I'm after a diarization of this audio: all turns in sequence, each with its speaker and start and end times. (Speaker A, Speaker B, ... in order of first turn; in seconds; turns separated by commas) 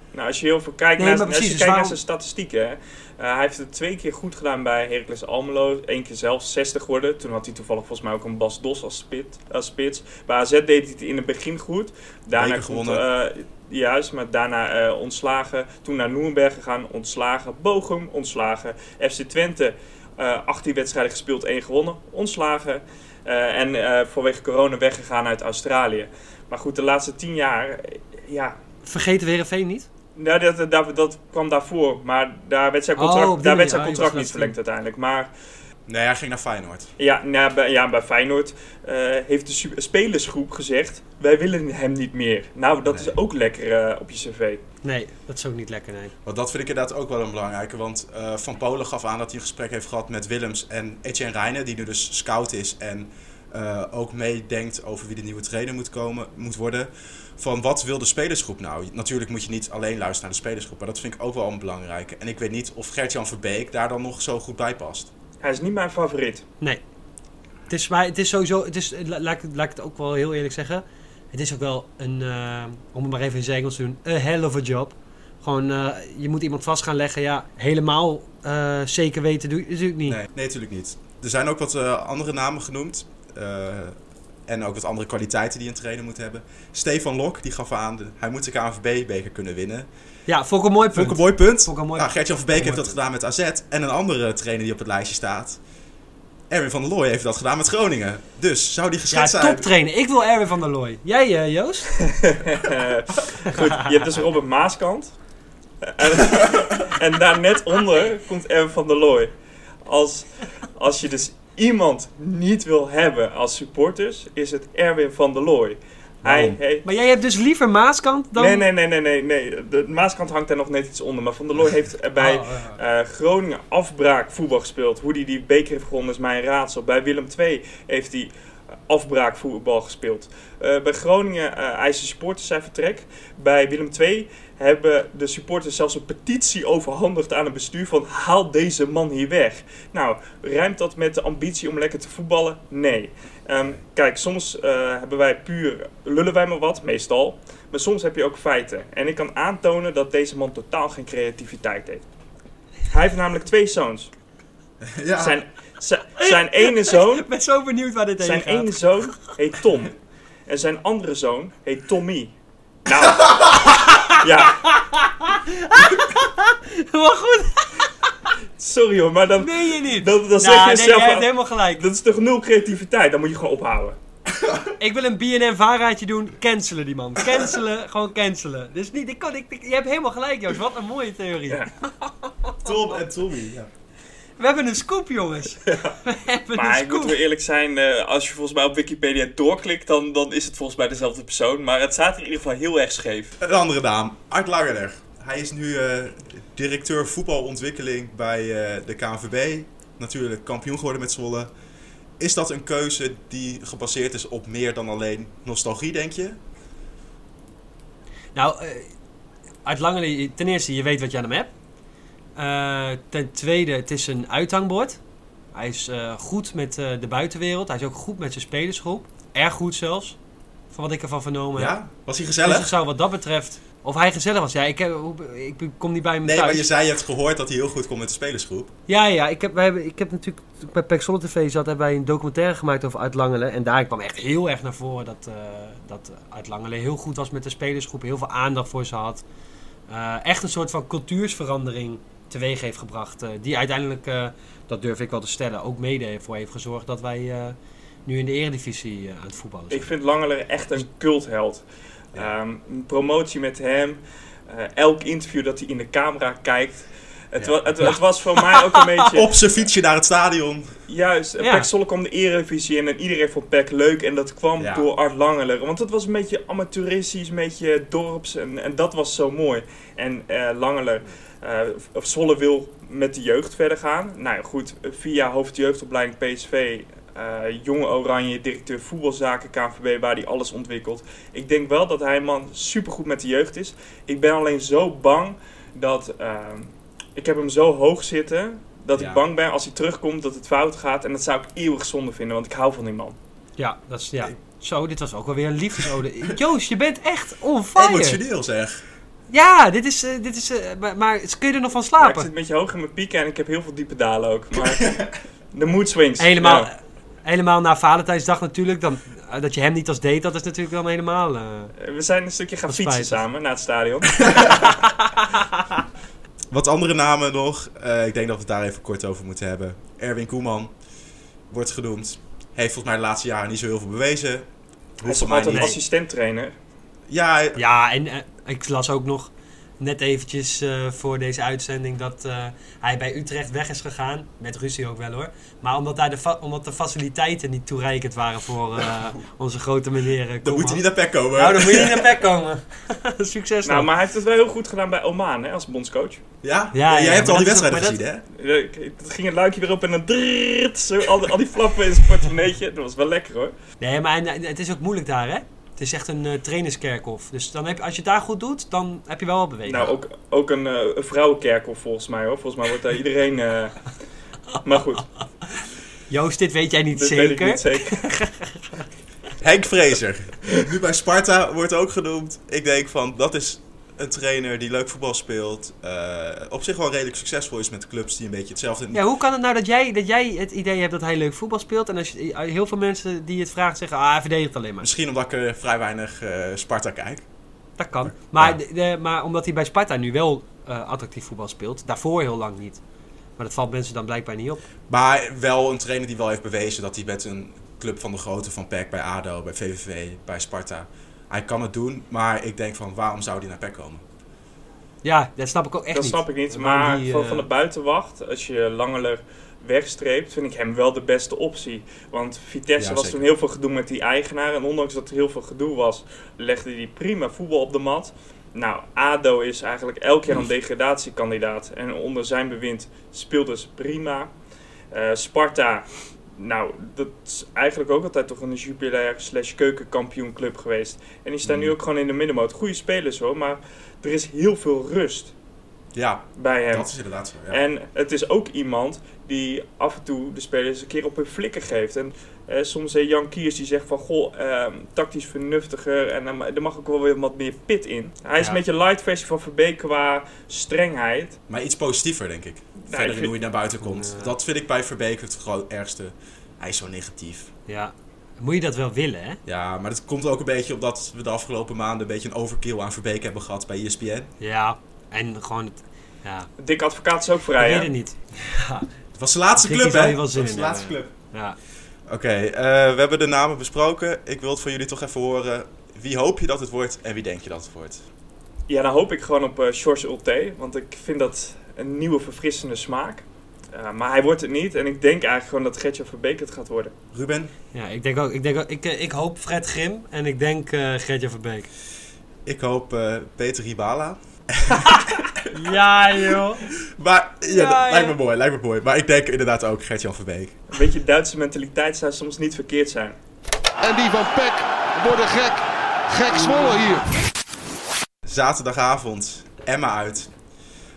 Speaker A: 0.1-28.6, Speaker B: 1.0-1.9, Speaker C: 12.3-13.0, Speaker B: 28.9-29.9, Speaker A: 30.1-35.3, Speaker B: 33.0-34.5, Speaker C: 35.9-36.9, Speaker A: 37.0-44.6, Speaker C: 42.9-43.1, Speaker B: 44.8-46.1, Speaker C: 46.2-65.1, Speaker A: 65.4-66.5, Speaker B: 67.7-80.2, Speaker C: 80.0-84.0, Speaker C: 84.5-89.9, Speaker B: 90.3-92.9, Speaker C: 90.9-95.6, Speaker C: 96.5-99.7, Speaker B: 99.1-101.9, Speaker A: 102.3-105.2, Speaker A: 105.8-109.3, Speaker A: 109.8-116.8, Speaker C: 116.2-116.6, Speaker B: 116.8-118.7, Speaker A: 118.3-128.3, Speaker B: 122.2-122.7, Speaker A: 128.9-152.1, Speaker A: 152.9-154.1, Speaker C: 154.8-155.4, Speaker A: 155.2-157.3, Speaker B: 157.2-158.7, Speaker A: 158.2-162.3, Speaker A: 162.8-164.7, Speaker B: 164.8-167.9, Speaker A: 168.6-174.0, Speaker B: 169.4-171.8, Speaker C: 174.3-174.7, Speaker B: 174.8-181.6, Speaker B: 182.2-182.7, Speaker C: 182.6-183.7, Speaker B: 184.4-187.2, Speaker A: 185.7-185.9, Speaker A: 186.5-193.3, Speaker C: 193.4-201.5, Speaker C: 202.2-206.4, Speaker B: 208.3-208.9, Speaker B: 209.6-211.5, Speaker B: 212.3-215.0, Speaker B: 215.5-220.2, Speaker B: 220.7-221.7, Speaker C: 221.6-222.7, Speaker B: 222.4-226.6, Speaker C: 226.2-228.7, Speaker B: 228.9-239.2, Speaker B: 239.9-249.9, Speaker A: 249.7-259.3, Speaker C: 257.4-258.0, Speaker C: 259.1-260.7, Speaker A: 260.9-293.2, Speaker B: 261.4-261.7, Speaker C: 264.6-264.9, Speaker C: 288.9-289.2, Speaker B: 293.6-298.2, Speaker C: 297.7-298.8, Speaker B: 299.3-302.3, Speaker A: 302.0-305.0, Speaker C: 304.6-305.1, Speaker A: 305.5-306.7, Speaker B: 306.2-311.7, Speaker A: 311.8-314.5, Speaker B: 312.7-313.2, Speaker B: 314.6-315.1, Speaker C: 316.5-320.7, Speaker C: 321.5-324.5, Speaker C: 325.0-325.8, Speaker A: 325.1-326.5, Speaker B: 325.5-325.8, Speaker C: 327.1-327.6, Speaker B: 327.6-343.9, Speaker C: 340.4-342.1, Speaker A: 343.6-346.2, Speaker C: 346.4-348.2, Speaker B: 346.7-348.0, Speaker A: 348.4-353.5, Speaker B: 353.8-359.9, Speaker A: 359.7-363.9, Speaker A: 364.6-365.1, Speaker B: 366.1-368.8, Speaker A: 366.9-368.1, Speaker C: 369.4-379.0, Speaker B: 378.9-384.9, Speaker C: 384.8-387.3, Speaker B: 387.8-392.8, Speaker C: 388.0-388.6, Speaker B: 393.4-394.6, Speaker C: 394.9-404.0, Speaker B: 405.0-407.4, Speaker A: 405.9-424.3, Speaker C: 412.8-413.2, Speaker A: 424.9-435.3, Speaker C: 431.4-431.7, Speaker C: 435.9-437.6, Speaker A: 436.4-436.9, Speaker A: 437.5-451.4, Speaker C: 451.5-457.5, Speaker A: 452.9-453.3, Speaker B: 453.8-454.3, Speaker B: 457.7-459.4, Speaker C: 459.4-464.3, Speaker B: 464.4-466.5, Speaker A: 466.6-467.9, Speaker B: 467.6-468.9, Speaker C: 469.1-471.1, Speaker B: 469.6-471.6, Speaker C: 472.1-478.0, Speaker A: 478.7-486.9, Speaker C: 487.1-487.5, Speaker B: 487.7-491.7, Speaker C: 492.4-495.5, Speaker B: 495.5-496.6, Speaker C: 496.9-500.6, Speaker B: 497.5-498.1, Speaker A: 500.7-503.2, Speaker D: 503.8-507.1, Speaker C: 508.2-510.3